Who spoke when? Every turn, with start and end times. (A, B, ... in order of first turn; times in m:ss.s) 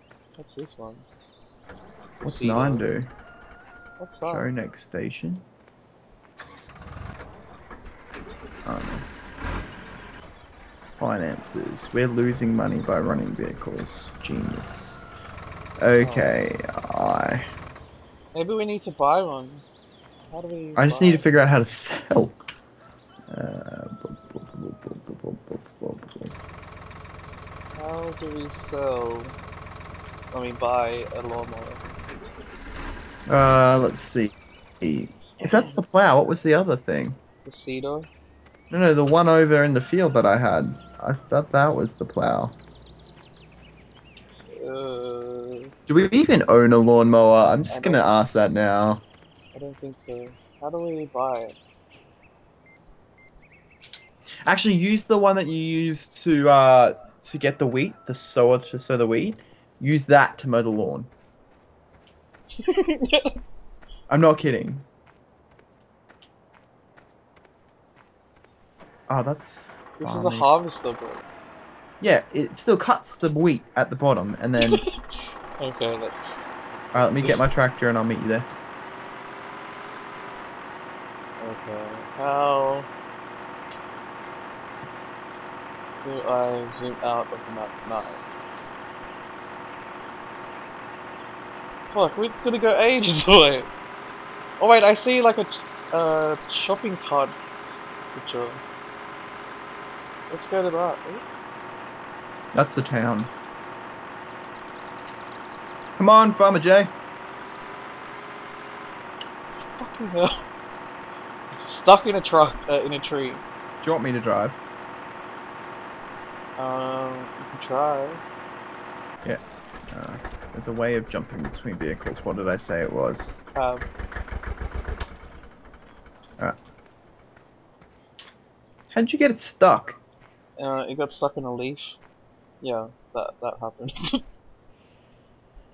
0:00.4-0:01.1 A
0:02.2-0:02.9 A
0:02.2-0:03.1 B
0:04.0-0:04.5 A
0:04.3-0:05.4 B
0:08.6-0:09.1 B
0:11.0-0:15.0 B
0:15.8-0:17.5 B
0:16.0-0:16.4 A
0:18.3-0:19.6 A
0:20.3-0:21.3 A
0:20.8-0:22.4 B
0:23.3-0:26.3 B
0:27.8-0:29.4 A
0:30.3-0:31.8 A
0:33.3-0:37.2 B
0:37.4-0:38.1 A
0:38.7-0:42.6 B
0:44.5-0:45.7 A
0:45.9-0:49.0 B
0:47.7-0:48.1 A
0:49.5-0:51.6 A
0:54.5-1:01.1 B
1:02.6-1:03.3 A
1:04.1-1:04.9 B
1:09.1-1:10.5 B
1:10.0-1:11.3 A
1:12.0-1:14.8 B
1:14.6-1:15.0 A
1:15.6-1:16.4 A
1:16.9-1:18.5 B
1:17.2-1:17.5 A
1:21.4-1:22.9 A
1:26.0-1:28.2 A
1:31.9-1:33.7 A
1:34.6-1:37.4 A
1:38.2-1:38.6 A
1:40.3-1:41.2 A
1:42.5-1:43.3 B
1:46.0-1:46.9 B
1:49.8-1:50.5 A
1:51.6-1:53.4 A
1:53.8-1:54.6 B
1:56.6-1:58.2 A
1:59.2-2:03.3 B
2:03.6-2:03.8 A
2:08.9-2:10.0 B
2:10.6-2:12.0 A
2:12.6-2:14.2 A